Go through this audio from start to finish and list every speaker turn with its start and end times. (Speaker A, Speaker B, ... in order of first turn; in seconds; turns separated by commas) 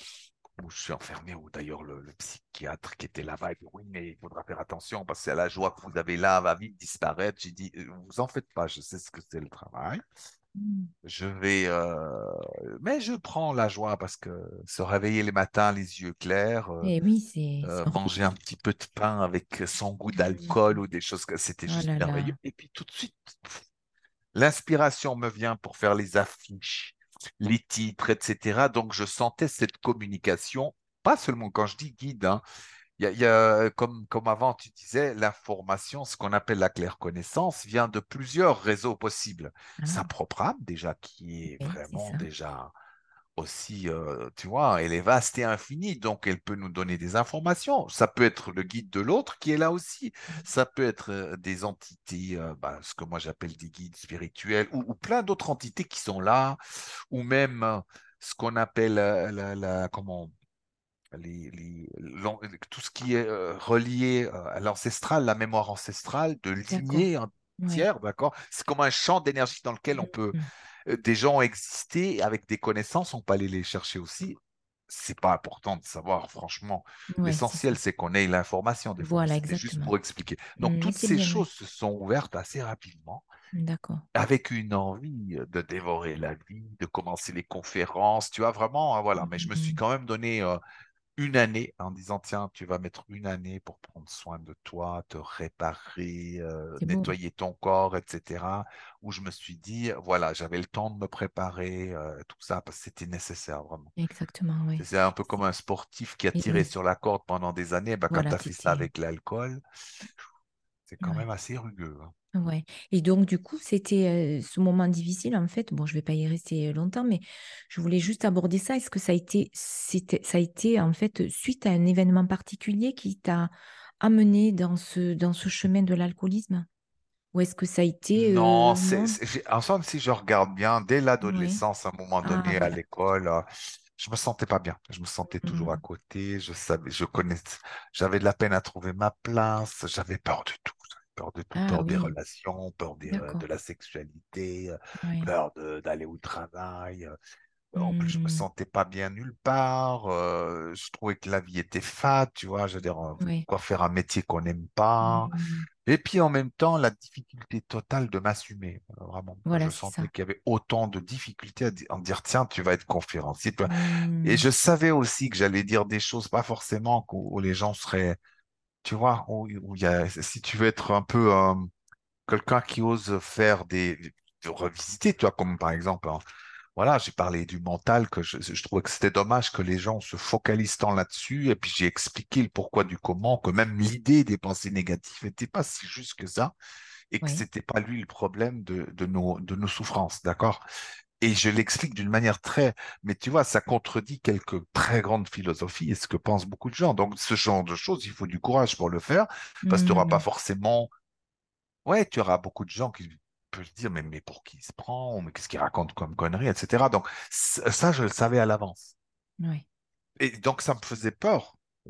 Speaker A: 0.6-10.0, Speaker B: 10.6-10.9, Speaker A: 11.0-16.9, Speaker B: 16.8-18.1, Speaker A: 17.6-23.6, Speaker B: 20.2-20.6, Speaker B: 21.7-22.4, Speaker A: 24.3-32.4, Speaker A: 33.0-42.7, Speaker B: 39.8-40.1, Speaker B: 41.5-42.2, Speaker A: 43.4-56.6, Speaker A: 57.1-60.3, Speaker A: 61.1-74.3, Speaker B: 66.7-67.1, Speaker B: 67.6-67.8, Speaker B: 70.0-70.5, Speaker A: 74.9-83.2, Speaker B: 77.1-77.7, Speaker B: 79.0-79.9, Speaker B: 80.6-81.5, Speaker B: 83.5-84.0, Speaker A: 84.1-90.6, Speaker B: 89.2-89.8, Speaker A: 91.2-103.9, Speaker B: 96.8-97.1, Speaker B: 104.0-104.8, Speaker A: 104.8-109.6, Speaker B: 106.3-106.7, Speaker B: 108.1-108.9, Speaker A: 110.9-112.1, Speaker B: 112.3-126.7, Speaker B: 127.3-129.2, Speaker A: 128.1-147.1, Speaker B: 131.2-131.6, Speaker B: 132.2-132.8, Speaker B: 135.4-135.8, Speaker B: 141.5-142.1, Speaker B: 143.1-143.4, Speaker B: 145.0-145.3, Speaker A: 147.7-155.3, Speaker B: 147.8-148.4, Speaker B: 153.2-153.4, Speaker B: 155.0-155.7, Speaker A: 155.8-163.7, Speaker B: 159.5-160.1, Speaker B: 163.7-164.4, Speaker A: 164.2-168.2, Speaker A: 168.8-171.7, Speaker A: 172.3-176.2, Speaker A: 176.8-186.5, Speaker A: 187.1-190.6, Speaker A: 191.2-200.9, Speaker B: 199.6-200.2, Speaker A: 201.8-208.9, Speaker A: 210.2-211.6